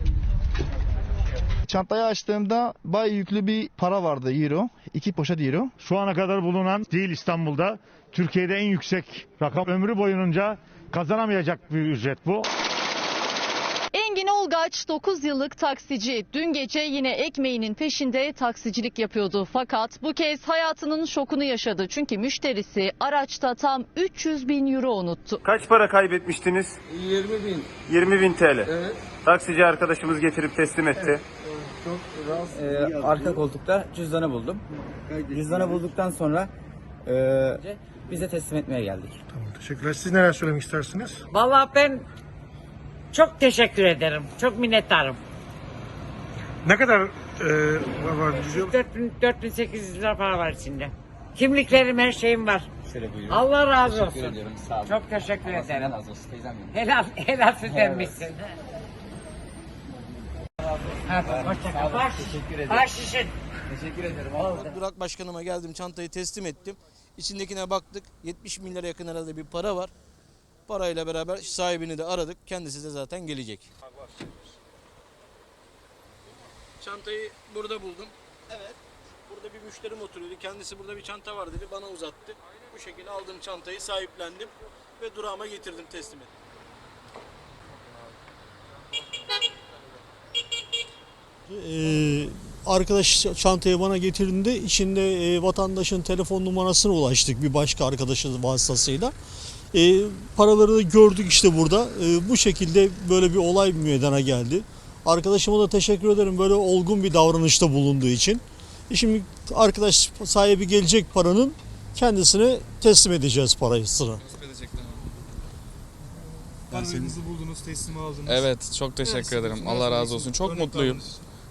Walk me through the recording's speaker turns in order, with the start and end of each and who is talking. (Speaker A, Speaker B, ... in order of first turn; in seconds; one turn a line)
Speaker A: 1.7-5.8
Speaker B: 5.8-12.5
Speaker C: 13.9-25.4
Speaker D: 25.4-26.8
Speaker D: 27.9-28.7
Speaker D: 29.2-31.2
Speaker E: 32.5-36.5
Speaker E: 37.0-39.2
Speaker F: 39.3-41.2
Speaker G: 41.3-42.1
Speaker G: 43.1-45.2
Speaker F: 46.6-48.7
Speaker G: 48.3-52.7
Speaker E: 52.9-56.7
Speaker G: 53.3-56.0
Speaker G: 56.7-58.5
Speaker E: 57.7-58.3
Speaker G: 61.1-63.4
Speaker E: 61.2-62.9
Speaker E: 63.7-64.6
Speaker H: 64.4-69.9
Speaker G: 64.4-64.8
Speaker H: 70.7-73.7
Speaker H: 76.8-78.7
Speaker H: 79.3-86.3
Speaker I: 91.5-99.1
Speaker I: 99.7-114.2
Speaker J: 114.2-115.1
Speaker K: 116.7-118.5
Speaker J: 118.3-121.0
Speaker K: 119.0-121.2